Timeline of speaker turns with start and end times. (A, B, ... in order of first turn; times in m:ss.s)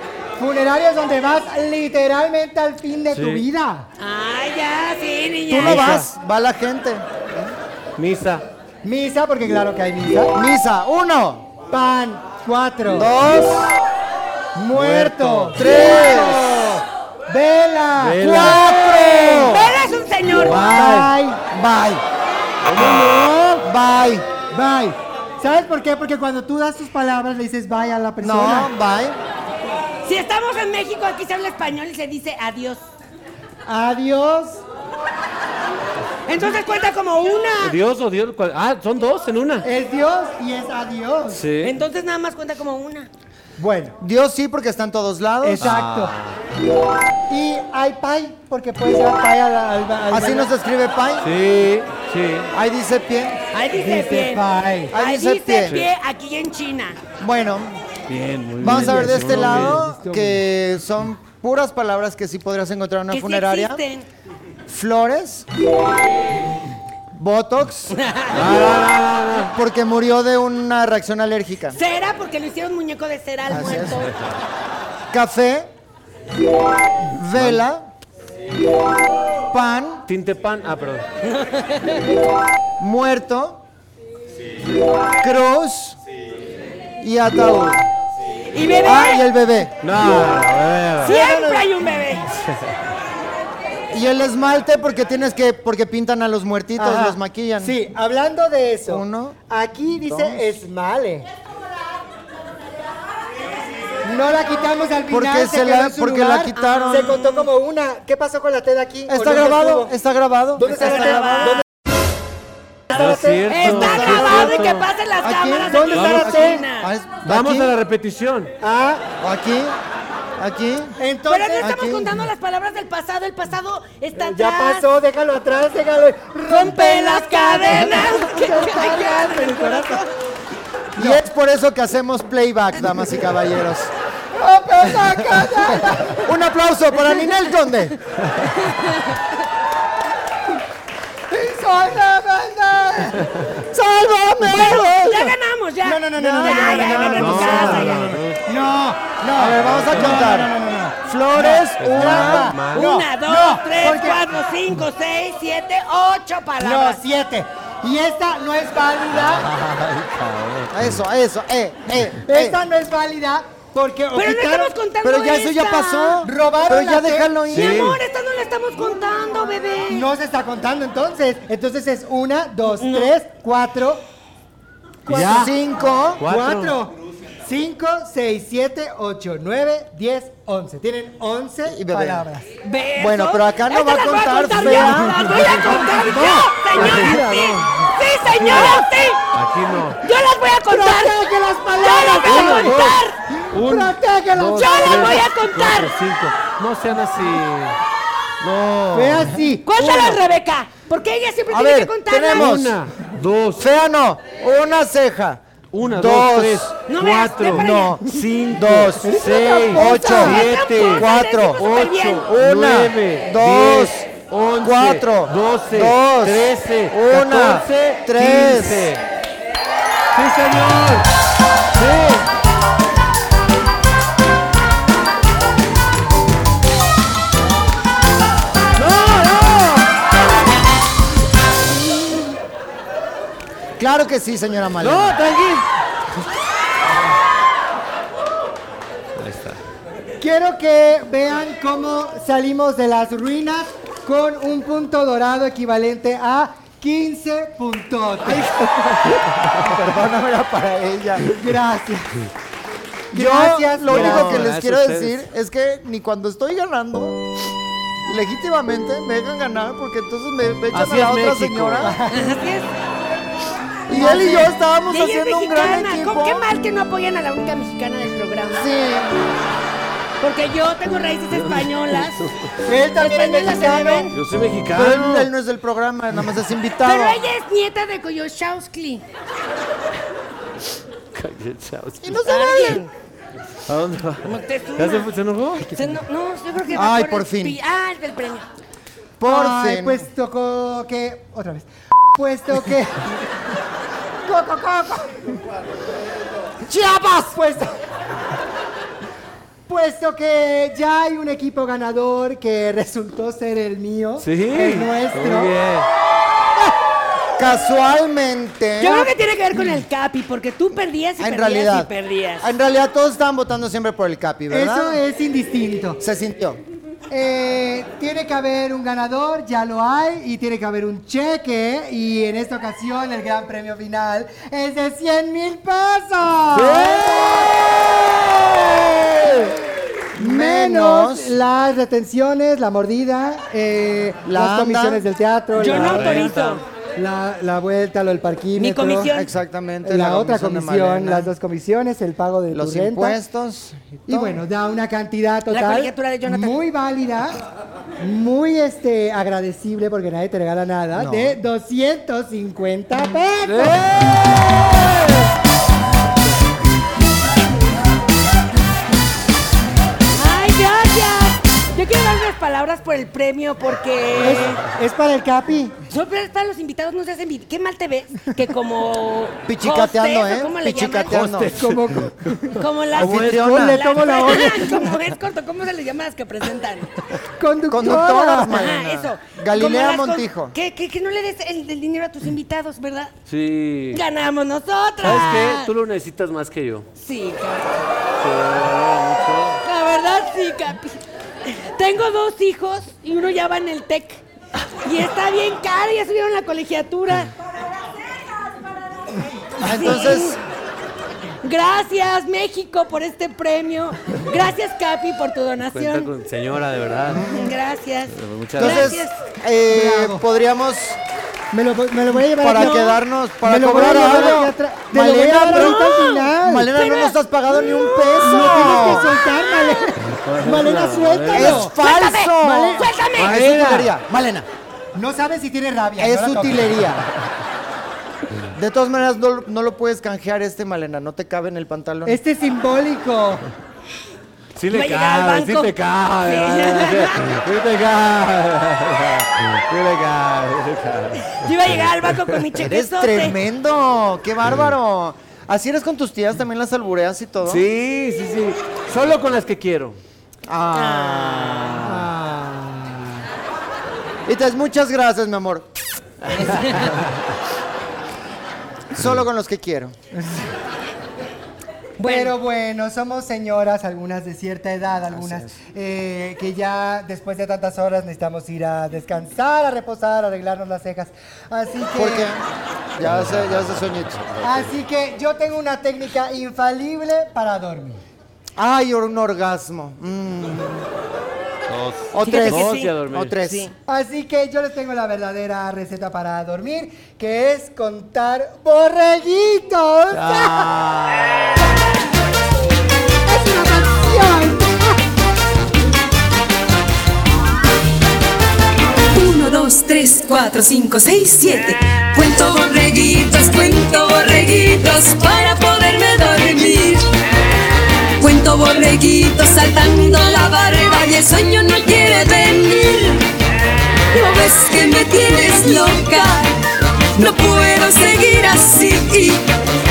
0:00.4-0:03.9 A
0:03.1-0:03.4 B
0:04.0-0:06.0 C
0:05.5-0:07.5 D
0:05.5-0:06.0 B
0:08.0-0:08.4 B
0:08.8-0:10.3 A
0:10.3-0:11.4 D
0:11.7-0:13.1 A
0:12.9-0:13.8 D
0:14.5-0:19.2 A
0:14.7-0:15.6 B
0:15.5-0:16.6 D
0:18.0-0:18.6 B
0:18.2-0:19.7 D
0:19.2-0:20.6 C
0:20.4-0:21.1 B
0:20.6-0:21.4 A
0:21.5-0:22.0 D
0:22.6-0:23.6 B
0:22.8-0:23.0 D
0:23.6-0:24.3 D
0:24.5-0:28.7 A
0:28.2-0:29.2 D
0:30.0-0:32.8 C
0:33.6-0:34.6 A
0:36.3-0:37.8 C
0:37.6-0:39.6 B
0:39.6-0:41.4 A
0:41.3-0:41.8 B
0:41.6-0:43.1 C
0:43.6-0:44.0 A
0:44.0-0:45.7 D
0:45.4-0:46.2 A
0:45.6-0:46.4 B
0:47.3-0:50.5 A
0:50.1-0:51.3 D
0:51.2-0:52.5 B
0:52.5-0:53.4 D
0:53.5-0:57.0 C
0:53.8-0:54.9 A
0:54.9-0:55.8 D
0:57.2-0:57.8 D
0:58.1-0:59.8 B
0:58.6-1:03.8 D
0:58.6-1:00.4 A
1:03.1-1:04.1 C
1:04.7-1:05.4 D
1:07.1-1:08.0 D
1:07.9-1:08.4 C
1:08.3-1:09.5 B
1:09.4-1:11.8 D
1:11.8-1:14.2 C
1:13.5-1:14.0 D
1:15.1-1:15.7 D
1:17.1-1:17.9 D
1:17.3-1:17.6 B
1:19.5-1:20.0 D
1:20.1-1:21.0 B
1:21.3-1:22.0 C
1:22.8-1:23.6 D
1:25.2-1:26.0 D
1:27.0-1:27.9 D
1:28.5-1:29.2 C
1:28.8-1:29.7 D
1:29.8-1:31.2 B
1:31.0-1:32.2 C
1:31.0-1:32.0 A
1:32.4-1:32.7 B
1:33.9-1:37.7 D
1:36.8-1:41.3 A
1:38.9-1:39.4 D
1:40.0-1:40.5 D
1:44.0-1:49.9 A
1:45.1-1:47.2 D
1:46.6-1:47.5 C
1:49.1-1:51.6 D
1:50.6-1:51.6 A
1:50.8-1:51.6 C
1:52.9-1:53.6 A
1:52.9-1:54.9 B
1:52.9-1:56.9 C
1:53.6-1:54.6 D
1:55.2-1:57.7 D
1:55.7-1:56.6 A
1:55.9-1:56.3 B
1:57.2-1:58.5 B
1:58.6-1:59.0 A
1:59.2-1:59.8 D
2:00.4-2:01.0 D
2:01.0-2:01.7 A
2:01.3-2:04.8 C
2:01.6-2:02.1 D
2:04.2-2:10.0 A
2:06.5-2:10.1 C
2:11.0-2:11.2 A
2:11.0-2:13.9 D
2:14.4-2:16.3 A
2:16.2-2:18.0 D
2:18.6-2:19.2 C
2:21.3-2:23.2 A
2:23.7-2:25.3 D
2:24.4-2:25.3 A
2:24.5-2:28.2 C
2:25.8-2:34.2 A
2:26.2-2:27.4 D
2:27.2-2:28.4 B
2:29.3-2:30.5 D
2:29.6-2:30.3 B
2:31.0-2:32.5 D
2:31.8-2:32.9 B
2:32.7-2:37.0 C
2:36.6-2:39.5 A
2:39.2-2:40.8 B
2:40.7-2:42.6 D
2:42.3-2:44.7 A
2:44.1-2:46.2 C
2:45.0-2:47.9 D
2:46.2-2:47.4 A
2:47.5-2:48.0 B
2:47.5-2:50.1 C
2:49.9-2:54.0 A
2:52.7-2:53.1 C
2:55.0-2:55.5 A
2:55.1-2:55.5 B
2:55.1-2:56.2 D
2:56.2-2:56.8 B
2:56.2-2:56.9 A
2:57.4-3:02.5 A
3:01.7-3:02.2 D
3:02.6-3:09.2 C
3:03.0-3:06.2 D
3:04.6-3:06.5 A
3:06.7-3:07.6 D
3:06.7-3:07.8 B
3:08.3-3:08.8 B
3:09.3-3:10.0 B
3:10.0-3:11.2 C
3:10.7-3:15.2 A
3:11.8-3:13.2 C
3:12.2-3:17.8 B
3:14.5-3:15.9 C
3:18.4-3:19.5 D
3:18.9-3:20.2 A
3:19.6-3:22.5 C
3:21.5-3:22.8 D
3:22.3-3:23.7 B
3:23.6-3:26.7 D
3:25.7-3:39.0 B
3:26.9-3:28.0 C
3:27.5-3:31.6 D
3:29.0-3:30.1 A
3:29.6-3:32.2 C
3:32.2-3:34.1 D
3:34.6-3:38.9 D
3:40.1-3:41.1 B
3:41.7-3:42.2 B
3:48.8-3:49.9 B
3:53.8-3:55.2 D
3:54.8-3:55.7 B
3:59.2-3:59.6 B
4:00.2-4:08.7 A
4:08.3-4:09.6 B
4:09.5-4:11.2 D
4:11.2-4:12.2 A
4:13.1-4:14.5 A
4:13.1-4:17.2 D
4:13.8-4:15.2 B
4:18.0-4:22.0 D
4:20.7-4:22.0 B
4:21.8-4:22.3 A
4:22.1-4:22.7 C
4:23.9-4:26.4 D
4:23.9-4:24.5 A
4:24.2-4:28.7 C
4:28.5-4:29.1 D
4:30.2-4:32.2 C
4:31.3-4:32.5 B
4:32.6-4:34.1 A
4:32.9-4:34.1 C
4:34.1-4:35.3 B
4:34.7-4:37.2 D
4:36.8-4:39.0 C
4:41.1-4:42.2 B
4:42.0-4:42.8 D
4:42.2-4:42.9 C
4:43.7-4:45.7 B
4:44.2-4:45.1 C
4:45.7-4:48.4 C
4:46.7-4:47.6 D
4:49.2-4:50.1 D
4:49.2-4:53.1 A
4:54.2-4:55.2 A
4:56.6-4:57.7 A
4:59.7-5:05.5 A
5:04.2-5:05.9 B
5:07.4-5:09.2 D
5:08.8-5:12.5 C
5:11.2-5:15.0 D
5:14.5-5:16.0 A
5:16.0-5:16.6 D
5:17.1-5:27.3 A
5:26.5-5:27.5 B
5:28.5-5:29.0 B
5:29.1-5:29.5 A
5:30.1-5:31.4 D
5:30.1-5:36.4 A
5:34.2-5:35.0 D
5:35.5-5:36.6 C
5:35.6-5:36.6 B
5:37.0-5:39.1 A
5:38.6-5:39.3 C
5:39.1-5:41.3 D
5:39.8-5:43.2 A
5:42.5-5:44.4 D
5:44.1-5:47.4 A
5:45.5-5:46.6 C
5:48.0-5:53.8 A
5:50.9-5:51.4 D
5:53.5-5:54.2 B
6:00.1-6:04.6 C
6:04.2-6:05.7 A
6:05.9-6:11.2 C
6:09.5-6:11.6 D
6:11.1-6:12.4 B
6:11.5-6:14.9 A
6:12.5-6:16.9 C
6:12.9-6:13.8 D
6:13.0-6:13.4 B
6:17.4-6:18.7 A
6:17.7-6:20.5 D
6:18.5-6:23.1 C
6:23.3-6:24.0 B
6:23.9-6:25.7 C
6:25.0-6:26.9 B
6:27.0-6:27.8 C
6:28.2-6:29.6 B
6:29.6-6:34.2 C
6:34.8-6:37.3 C
6:39.6-6:40.4 D
6:39.6-6:40.4 C
6:41.4-6:46.1 C
6:45.6-6:47.2 B
6:47.1-6:47.5 D
6:47.2-6:49.2 C
6:48.1-6:49.0 B
6:48.6-6:51.0 D
6:49.7-6:50.2 A
6:51.5-6:56.7 A
6:52.4-6:59.1 D
6:55.6-6:56.1 C
6:56.7-6:59.8 C
6:58.2-7:01.8 A
7:00.0-7:01.7 B
7:01.3-7:04.5 D
7:01.8-7:03.4 C
7:02.4-7:02.9 A
7:03.2-7:03.9 B
7:04.9-7:06.9 A
7:06.0-7:07.0 D
7:08.5-7:12.2 D
7:12.0-7:13.5 A
7:14.6-7:22.3 B
7:14.7-7:17.4 C
7:21.2-7:23.4 C
7:22.6-7:27.6 D
7:27.4-7:30.0 B
7:30.5-7:32.0 D
7:30.7-7:31.7 C
7:31.8-7:33.2 A
7:34.2-7:35.7 D
7:36.3-7:36.9 C
7:38.9-7:40.0 D
7:42.0-7:42.3 C
7:42.0-7:52.3 A
7:45.1-7:45.5 D
7:51.9-7:52.4 D
7:53.0-7:54.2 D
7:53.0-7:54.7 B
7:54.4-7:58.0 A
7:58.6-8:00.9 D
8:01.7-8:03.4 B
8:02.1-8:03.7 D
8:02.2-8:03.7 C
8:03.9-8:10.7 A
8:10.1-8:11.6 B
8:13.2-8:15.0 A
8:19.1-8:27.1 E
8:28.2-8:33.3 E
8:34.1-8:36.6 E
8:37.1-8:39.5 E